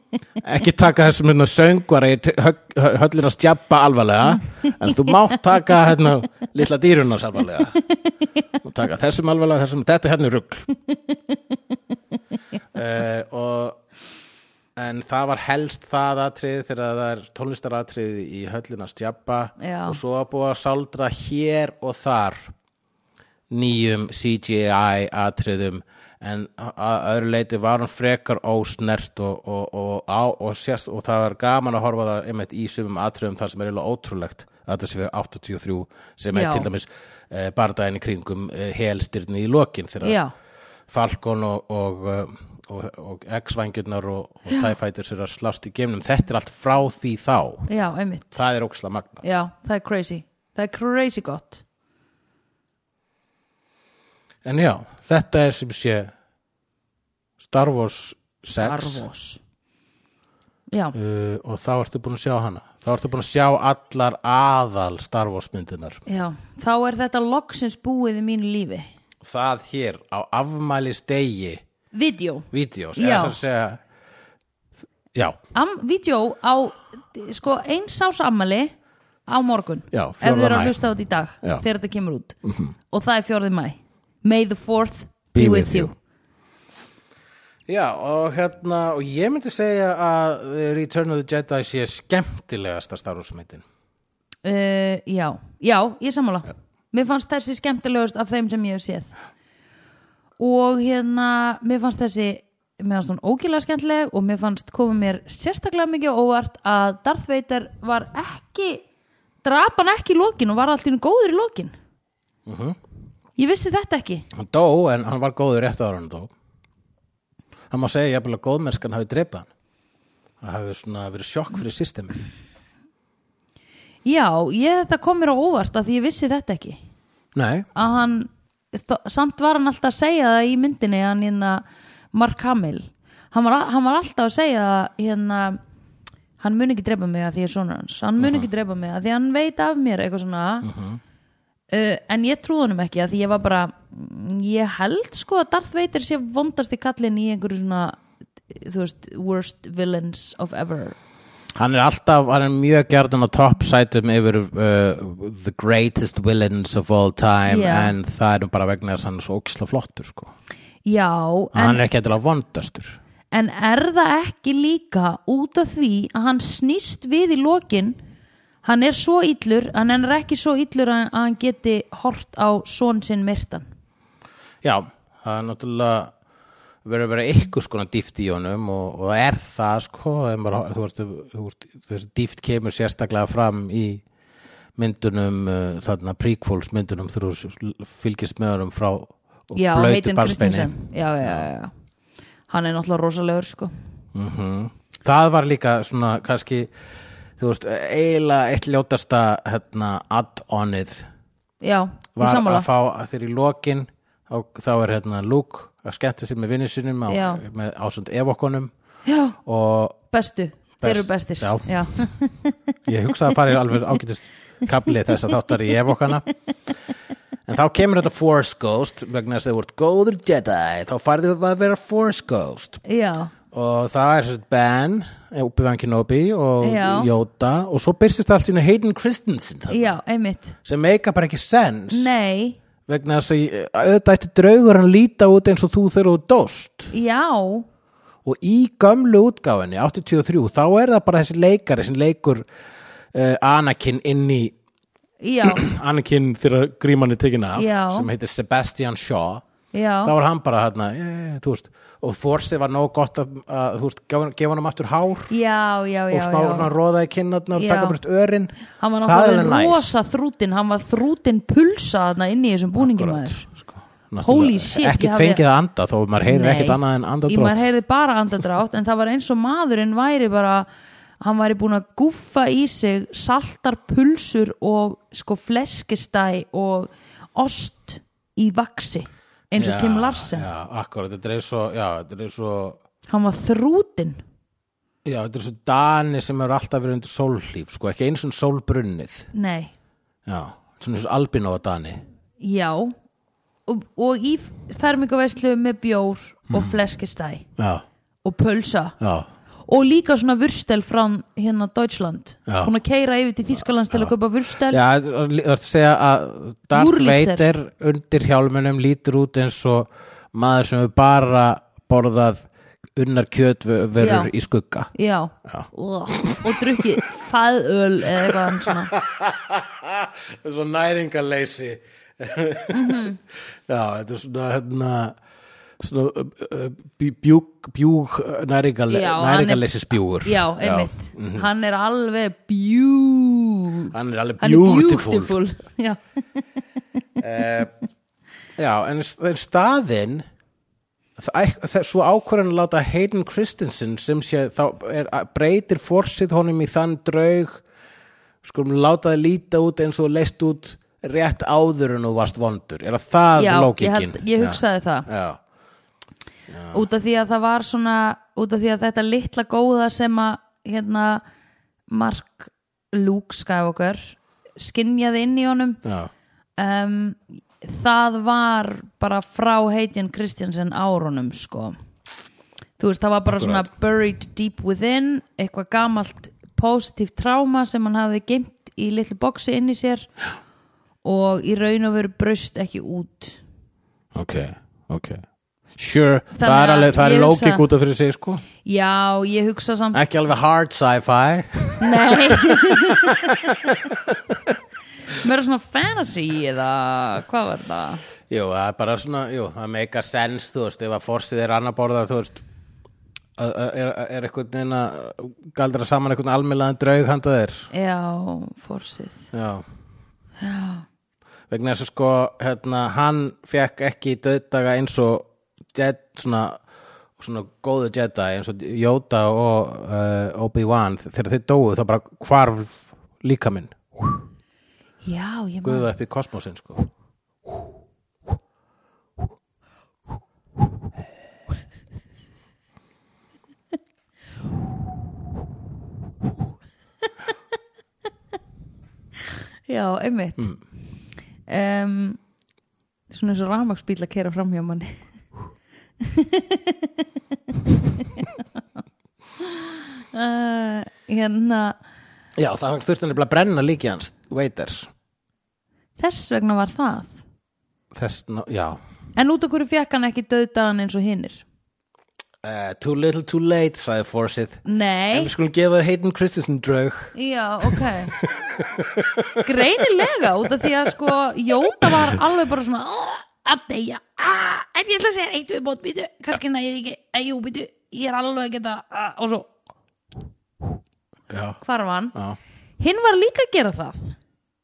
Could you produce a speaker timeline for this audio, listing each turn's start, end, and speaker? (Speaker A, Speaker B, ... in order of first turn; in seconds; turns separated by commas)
Speaker A: 0.4-7.8, Speaker A: 8.6-10.7, Speaker A: 12.7-13.8, Speaker A: 14.8-22.5, Speaker B: 19.6-20.0, Speaker A: 23.5-40.2, Speaker B: 36.3-36.7, Speaker B: 40.0-40.3, Speaker A: 40.9-47.7, Speaker B: 44.5-44.7, Speaker B: 47.7-48.4, Speaker A: 48.3-49.2, Speaker B: 49.2-51.6, Speaker A: 54.4-56.1, Speaker A: 57.4-59.0, Speaker B: 58.6-59.4, Speaker A: 60.9-66.0, Speaker B: 66.0-68.9, Speaker A: 69.2-71.6, Speaker B: 71.9-73.3, Speaker A: 72.5-73.8, Speaker B: 75.5-78.7, Speaker B: 79.3-82.3, Speaker A: 79.9-80.8, Speaker A: 82.4-82.7, Speaker B: 82.9-85.9, Speaker A: 85.3-85.9, Speaker A: 87.7-93.6, Speaker B: 94.4-99.1, Speaker B: 100.4-108.8, Speaker B: 109.4-111.7, Speaker A: 112.5-112.8, Speaker B: 113.4-114.2, Speaker A: 114.3-116.3, Speaker A: 117.7-119.5, Speaker A: 120.4-122.3, Speaker B: 124.0-126.8, Speaker A: 127.3-127.7, Speaker B: 127.7-135.6, Speaker B: 136.4-140.7, Speaker A: 138.2-138.5, Speaker A: 140.6-141.0, Speaker B: 141.7-151.0, Speaker A: 151.6-160.3, Speaker B: 157.5-157.9, Speaker B: 160.8-161.8, Speaker A: 161.5-163.0, Speaker B: 163.3-168.0, Speaker B: 168.6-173.7, Speaker A: 174.6-176.1, Speaker A: 176.8-184.0, Speaker A: 184.8-191.4, Speaker B: 189.5-191.7, Speaker B: 192.5-193.7, Speaker A: 194.1-196.7, Speaker A: 197.4-201.1, Speaker B: 201.6-202.7, Speaker A: 202.2-208.7, Speaker B: 207.1-207.4, Speaker B: 209.1-209.4, Speaker A: 209.4-210.0, Speaker B: 210.1-212.6, Speaker A: 210.8-212.1, Speaker A: 212.8-216.2, Speaker A: 217.4-222.8, Speaker B: 222.8-223.3, Speaker A: 223.5-229.9, Speaker B: 226.6-227.1, Speaker B: 229.7-230.6, Speaker A: 230.6-232.1, Speaker B: 231.9-232.6, Speaker A: 232.9-236.9, Speaker B: 236.9-237.7, Speaker A: 238.2-242.5, Speaker A: 243.1-244.5, Speaker B: 245.2-245.7, Speaker A: 245.4-249.4, Speaker B: 247.6-248.1, Speaker B: 249.7-250.1, Speaker A: 250.0-255.3, Speaker B: 255.3-256.7, Speaker A: 256.1-259.9, Speaker B: 257.6-258.0, Speaker B: 258.8-263.4, Speaker A: 262.8-267.7, Speaker B: 264.2-265.4, Speaker B: 266.2-270.7, Speaker B: 271.2-280.5, Speaker A: 279.6-282.8, Speaker B: 283.1-284.2, Speaker A: 285.0-289.3, Speaker B: 289.3-289.7, Speaker A: 290.2-292.0, Speaker B: 292.4-292.9, Speaker B: 293.7-297.5, Speaker A: 296.5-296.8, Speaker A: 297.6-297.8, Speaker B: 298.2-299.0, Speaker A: 299.0-299.3, Speaker B: 299.7-304.8, Speaker A: 302.5-302.7, Speaker A: 304.7-314.9, Speaker B: 306.7-307.4, Speaker B: 314.0-314.3, Speaker B: 314.9-318.9, Speaker A: 315.4-317.0, Speaker A: 318.2-323.1, Speaker B: 322.7-323.2, Speaker A: 323.7-325.2, Speaker A: 325.8-331.5, Speaker B: 328.9-329.7, Speaker B: 330.2-336.0, Speaker A: 333.9-335.4, Speaker A: 337.2-337.7, Speaker A: 338.6-340.2, Speaker A: 341.2-347.6, Speaker A: 348.4-355.4, Speaker B: 353.3-355.1, Speaker A: 356.5-356.8, Speaker B: 356.7-361.2, Speaker B: 361.9-365.8, Speaker A: 365.8-366.1, Speaker B: 366.6-371.8, Speaker B: 372.8-380.1, Speaker A: 373.3-373.7, Speaker B: 381.0-383.4, Speaker A: 384.1-385.2, Speaker A: 385.8-388.4, Speaker B: 386.4-387.6, Speaker B: 388.6-390.0, Speaker A: 389.9-394.5, Speaker B: 391.8-393.4, Speaker B: 395.1-398.0, Speaker A: 398.3-402.4, Speaker A: 403.4-407.7, Speaker B: 407.7-409.2, Speaker A: 409.3-409.6, Speaker B: 410.4-410.9, Speaker A: 411.5-416.6, Speaker A: 417.2-424.2, Speaker B: 425.0-425.9, Speaker A: 425.6-426.9, Speaker B: 439.7-440.5, Speaker B: 441.5-442.2, Speaker B: 443.1-445.0, Speaker B: 446.0-447.0, Speaker B: 448.0-448.3, Speaker B: 449.4-451.8, Speaker A: 452.4-454.9, Speaker B: 456.0-457.2, Speaker A: 457.9-458.8, Speaker B: 459.1-461.4, Speaker A: 462.4-469.6, Speaker B: 464.6-465.3, Speaker B: 467.1-468.1, Speaker B: 469.4-479.5, Speaker A: 470.6-470.9, Speaker A: 471.8-472.2, Speaker A: 481.3-481.6, Speaker B: 481.6-482.1, Speaker B: 482.8-484.1